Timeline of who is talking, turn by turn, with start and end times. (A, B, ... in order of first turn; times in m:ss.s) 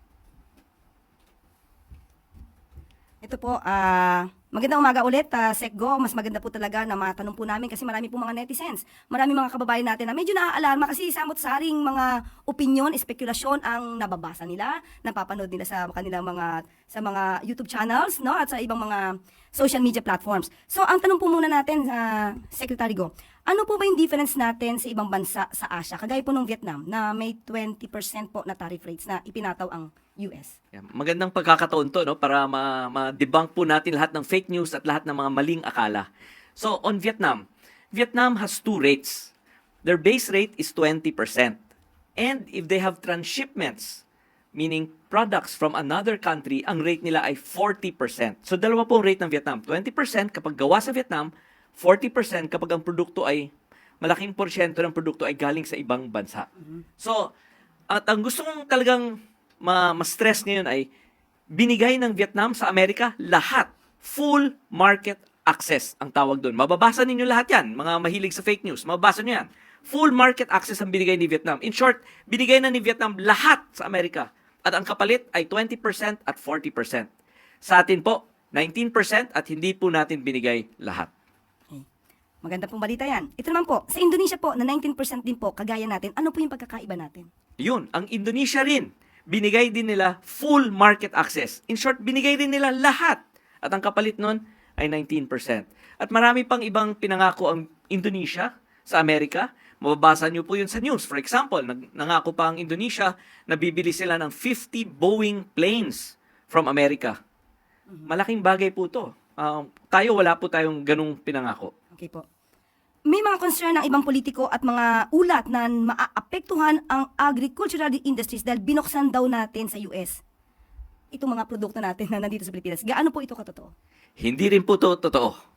0:03.2-0:30.5 A
0:30.7-0:39.3 B
0:39.8-0:41.6 B
0:42.2-0:44.0 B
0:44.5-0:53.5 B
0:54.0-0:56.5 B
0:57.0-0:57.3 B
0:57.9-1:00.9 B
1:01.5-1:17.1 B
1:17.6-1:21.1 B
1:22.4-1:27.3 A
1:27.6-1:47.2 B
1:48.1-1:51.7 B
1:51.9-1:52.2 A
1:53.1-2:00.2 A
2:01.1-2:03.7 A
2:04.2-2:05.4 B